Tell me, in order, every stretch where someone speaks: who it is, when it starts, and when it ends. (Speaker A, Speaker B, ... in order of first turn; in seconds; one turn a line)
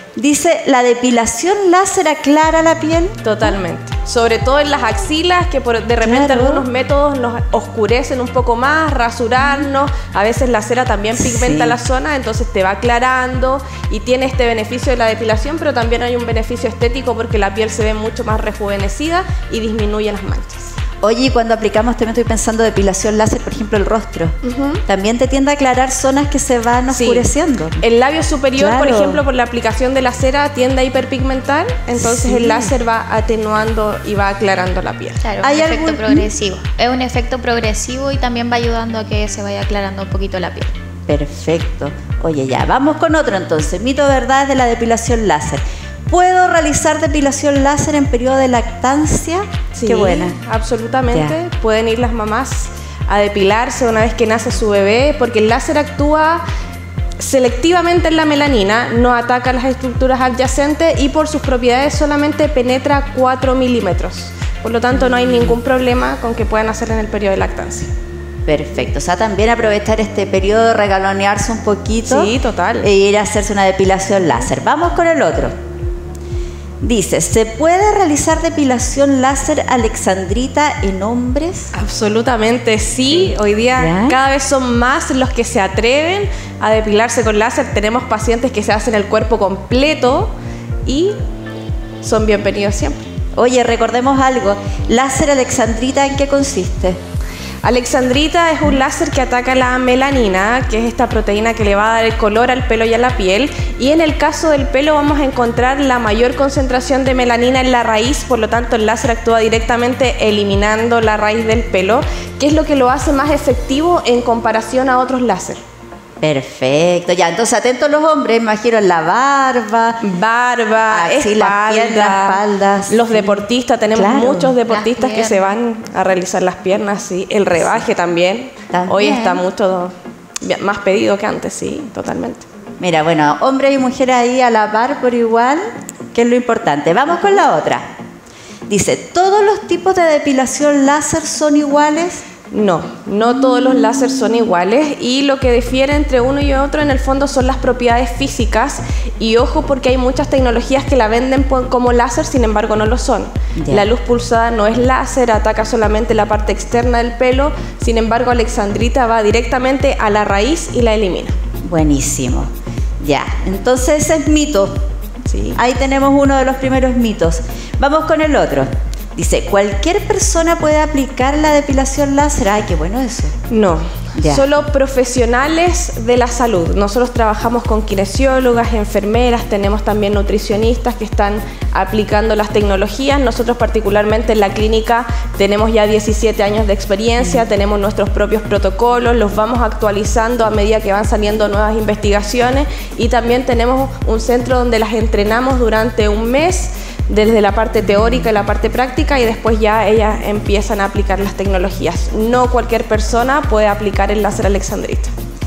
Speaker A: 0.2-3.2
Speaker B: 3.2-20.7
Speaker A: 6.0-6.7
Speaker A: 11.2-11.8
Speaker A: 21.0-24.3
Speaker B: 24.4-24.8
Speaker A: 24.9-27.8
Speaker B: 26.9-35.2
Speaker A: 28.6-29.2
Speaker A: 32.0-32.7
Speaker C: 35.2-40.7
Speaker A: 35.4-36.3
Speaker A: 41.1-50.4
Speaker B: 49.7-56.4
Speaker A: 51.1-51.4
Speaker B: 57.2-67.9
Speaker A: 65.3-65.5
Speaker A: 68.5-72.3
Speaker B: 72.0-72.9
Speaker A: 72.8-75.5
Speaker A: 76.8-81.7
Speaker B: 81.7-90.3
Speaker A: 83.8-84.2
Speaker B: 90.9-91.2
Speaker B: 92.0-93.0
Speaker A: 93.4-97.0
Speaker B: 97.6-115.6
Speaker A: 116.2-120.0
Speaker B: 120.0-132.4
Speaker A: 120.9-124.6
Speaker C: 124.7-125.6
Speaker A: 128.7-129.4
Speaker A: 132.8-137.9
Speaker A: 138.7-142.2
Speaker B: 142.5-161.3
Speaker A: 153.6-153.9
Speaker A: 161.6-162.5
Speaker A: 163.0-164.7
Speaker B: 165.3-165.6
Speaker A: 165.6-173.3
Speaker B: 173.5-205.1
Speaker A: 174.2-174.4